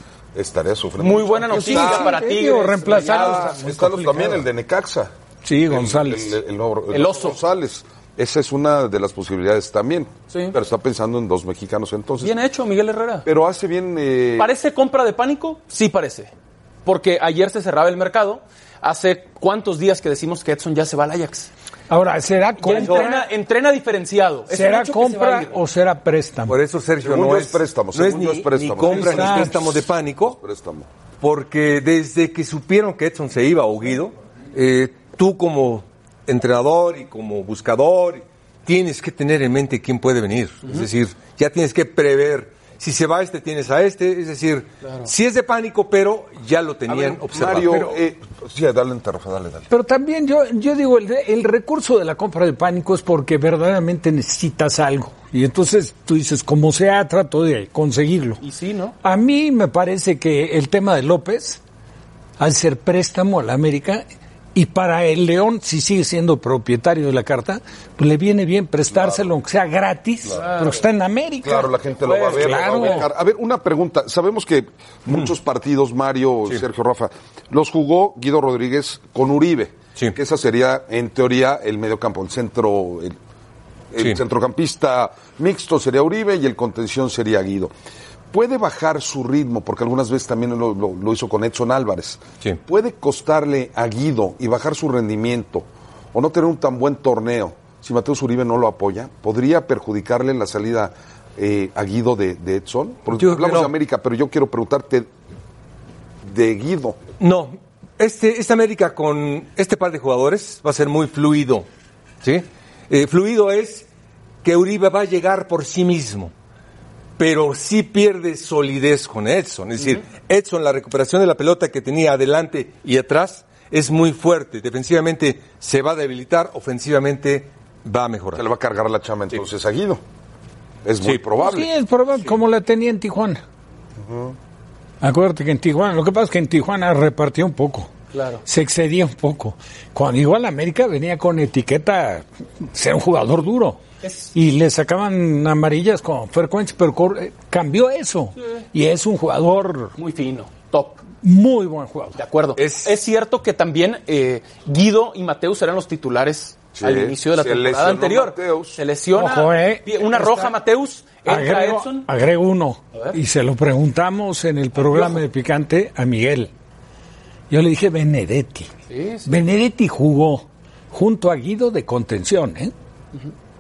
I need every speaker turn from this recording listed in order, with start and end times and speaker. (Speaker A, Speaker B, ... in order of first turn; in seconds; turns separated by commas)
Speaker A: 0.3-2.2, Speaker B: 1.0-3.6, Speaker C: 1.5-4.4, Speaker A: 3.0-5.1, Speaker C: 5.4-6.4, Speaker A: 5.7-12.4, Speaker B: 6.9-7.4, Speaker B: 10.3-10.6, Speaker B: 12.2-13.3, Speaker A: 13.2-14.5, Speaker B: 14.4-16.3, Speaker B: 16.9-21.5, Speaker C: 21.9-23.2, Speaker B: 22.6-25.6, Speaker D: 22.7-23.2, Speaker C: 24.5-26.5, Speaker D: 26.5-30.4, Speaker A: 27.0-30.9, Speaker C: 28.8-29.6, Speaker D: 31.2-48.0, Speaker B: 44.8-45.1, Speaker A: 46.9-49.7, Speaker C: 49.7-58.4, Speaker B: 58.4-59.0, Speaker C: 59.0-61.6, Speaker C: 62.4-73.1, Speaker A: 68.9-69.3, Speaker A: 70.3-70.6, Speaker B: 70.3-70.8, Speaker A: 71.4-83.2, Speaker B: 72.0-73.0, Speaker A: 83.9-87.7, Speaker A: 88.3-105.1, Speaker D: 103.2-103.7, Speaker A: 106.2-107.0, Speaker D: 107.2-111.7, Speaker D: 112.2-113.9, Speaker D: 114.4-116.3, Speaker D: 117.2-128.4, Speaker A: 128.3-130.0, Speaker A: 130.8-131.7, Speaker C: 131.4-133.4, Speaker A: 134.0-134.3, Speaker C: 135.0-137.9, Speaker B: 138.1-138.4, Speaker C: 138.4-143.8, Speaker B: 144.0-144.3, Speaker C: 144.3-149.9, Speaker B: 150.0-151.0, Speaker C: 151.2-152.2, Speaker B: 152.2-162.1, Speaker D: 152.6-153.1, Speaker A: 156.8-158.8, Speaker C: 159.1-160.5, Speaker C: 161.2-166.5, Speaker B: 164.8-165.2, Speaker C: 167.5-168.7, Speaker B: 168.9-169.3, Speaker C: 169.2-172.7